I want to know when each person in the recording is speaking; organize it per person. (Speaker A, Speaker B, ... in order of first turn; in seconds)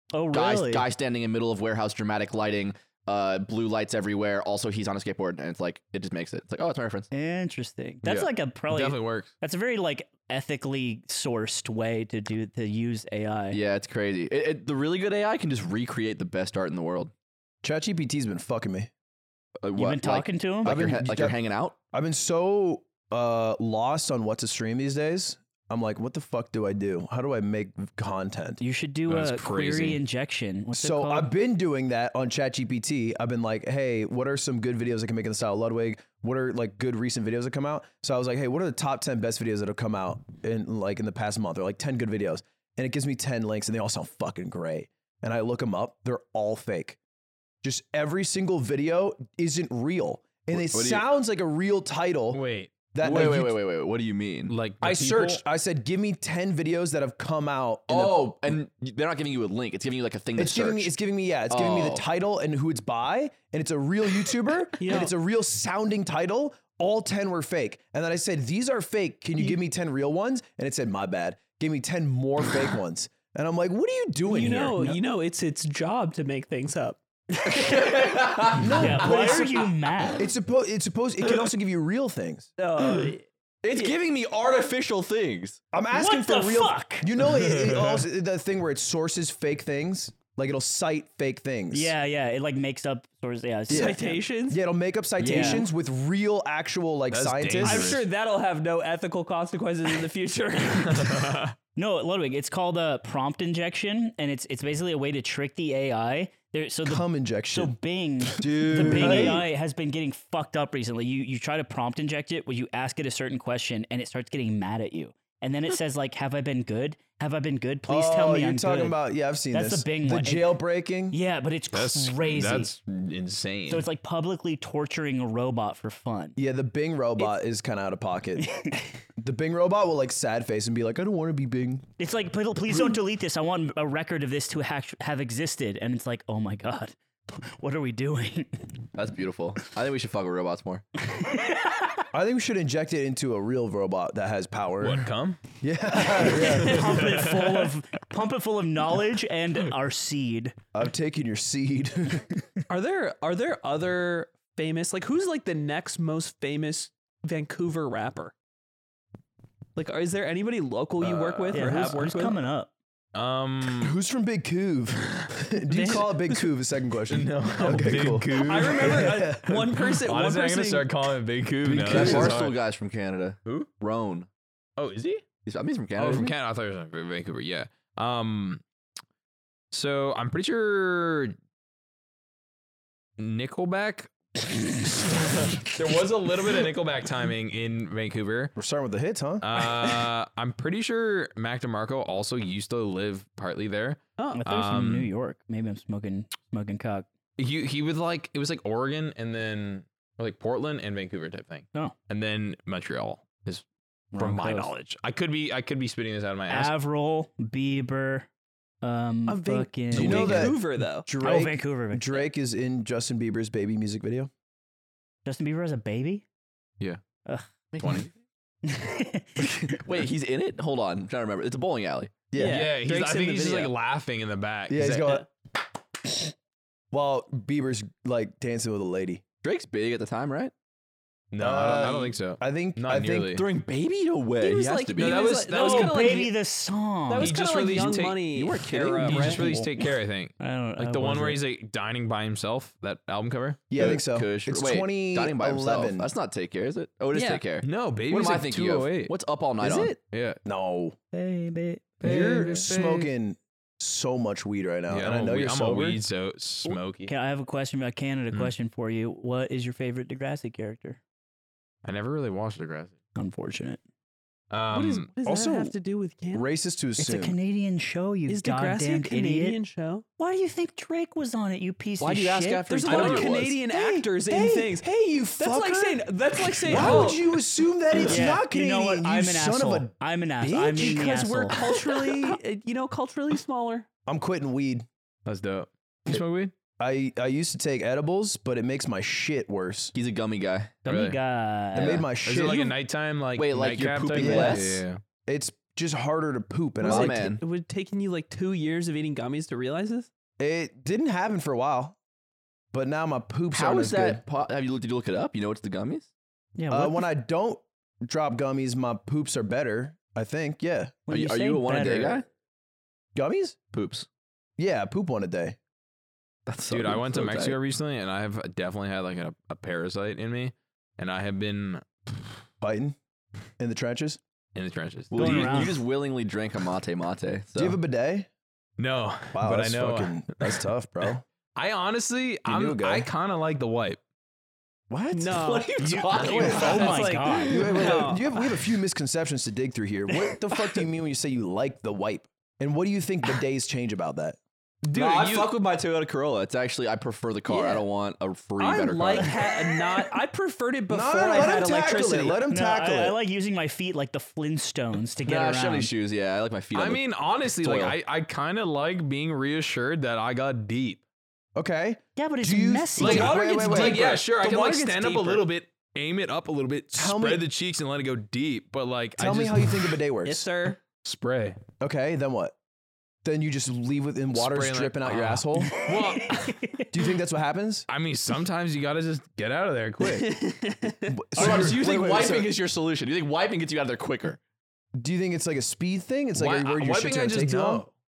Speaker A: 0.1-0.9, 7.1-13.6, 19.8-20.8, 28.6-31.3, 78.7-80.3, 85.9-87.1, 91.7-94.2, 95.2-95.7, 101.8-119.0, 119.5-120.6, 121.1-122.7, 123.7-126.4, 128.4-128.8, 132.0-138.9, 141.0-142.0, 146.0-150.6, 161.5-162.7, 194.3-197.1, 204.1-204.7, 206.5-208.3, 208.8-210.6, 211.2-212.3, 215.2-216.2, 218.6-219.8, 235.5-237.9, 240.4-241.4, 251.1-252.6, 256.6-261.0, 263.2-263.8, 267.0-269.6, 270.2-273.3, 278.0-281.6, 290.9-292.0, 306.6-307.1, 311.1-312.2, 325.1-325.8, 336.1-337.9, 352.5-355.9, 362.2-363.3, 375.7-376.9
Speaker B: 0.3-7.1, 13.5-17.1, 19.6-21.8, 50.5-51.0, 53.0-54.5, 57.9-60.9, 61.5-62.0, 77.5-79.4, 83.6-85.6, 138.9-140.8, 171.8-174.3, 175.4-176.3, 217.7-218.1, 219.4-222.2, 229.4-230.5, 233.3-235.3, 238.3-239.6, 243.8-250.0, 272.0-273.6, 276.7-277.2, 289.9-290.7, 291.8-292.6, 293.4-294.8, 296.8-297.4, 303.5-306.1, 311.1-312.3, 313.7-314.1, 316.5-317.6, 325.1-327.8, 335.4-337.1, 344.9-349.5, 355.2-357.0, 357.6-357.9, 381.4-384.4
Speaker C: 8.1-9.3, 29.1-30.0, 52.3-52.7, 54.5-55.4, 87.3-88.0, 97.1-98.0, 100.8-101.5, 121.7-123.8, 144.8-145.4, 146.4-147.7, 161.0-162.0, 163.1-163.9, 167.1-172.6, 174.8-175.2, 176.0-178.6, 179.7-181.4, 183.2-188.5, 189.4-195.1, 197.4-203.7, 204.2-206.7, 217.8-218.1, 222.4-225.2, 231.3-233.4, 235.0-236.2, 237.2-238.2, 239.1-243.7, 247.6-249.1, 250.1-250.4, 252.0-253.1, 254.9-257.1, 261.8-263.0, 264.5-265.1, 285.3-286.5, 290.9-291.2, 292.2-295.0, 316.7-322.4, 324.6-325.7, 328.8-330.6, 331.6-334.0, 335.8-337.3, 344.8-345.6, 356.7-361.0, 363.0-370.0, 371.0-371.6, 374.3-376.6, 377.9-380.4, 381.4-381.7, 386.4-387.9
Speaker D: 17.6-18.9, 20.6-21.4, 21.9-28.6, 30.7-47.0, 47.6-52.4, 52.9-53.6, 54.8-58.6, 60.4-75.0, 78.5-82.5, 85.7-91.9, 93.7-98.0, 106.8-107.8, 108.4-109.5, 117.9-121.2, 126.4-131.8, 142.1-145.1, 145.6-147.2, 150.7-152.4, 163.8-169.6, 171.6-172.4, 188.6-189.4, 209.9-214.3, 222.3-222.7, 224.7-225.3, 226.9-229.2, 231.4-233.4, 243.7-246.1, 250.4-251.0, 252.0-256.0, 265.2-265.8, 266.3-267.4, 274.2-279.9, 284.1-284.9, 286.8-289.9, 291.8-292.6, 294.1-297.4, 300.4-302.0, 302.7-304.2, 306.7-311.0, 313.1-313.6, 314.6-315.6, 322.6-323.0, 323.6-324.2, 327.6-328.3, 329.3-331.2, 332.5-333.1, 334.9-335.6, 336.5-336.8, 337.4-344.4, 350.9-353.2, 361.6-364.2, 366.9-367.5, 369.2-370.5, 371.8-372.6, 373.2-375.8, 376.9-377.9, 381.1-382.6, 384.9-387.9
Speaker E: 64.8-65.1, 74.3-78.0, 82.6-83.9, 93.7-94.6, 95.2-95.6, 97.6-101.4, 152.7-158.3, 159.8-162.4, 165.7-166.5, 168.4-170.9, 194.2-194.4, 209.3-211.1, 222.3-223.7, 234.4-236.3, 237.1-239.6, 247.1-247.4, 264.7-266.5, 268.3-270.1, 272.8-277.3, 280.4-283.9, 292.4-292.8, 296.8-300.1, 335.1-338.5, 348.6-352.4, 363.0-365.4, 370.2-370.8, 380.0-381.2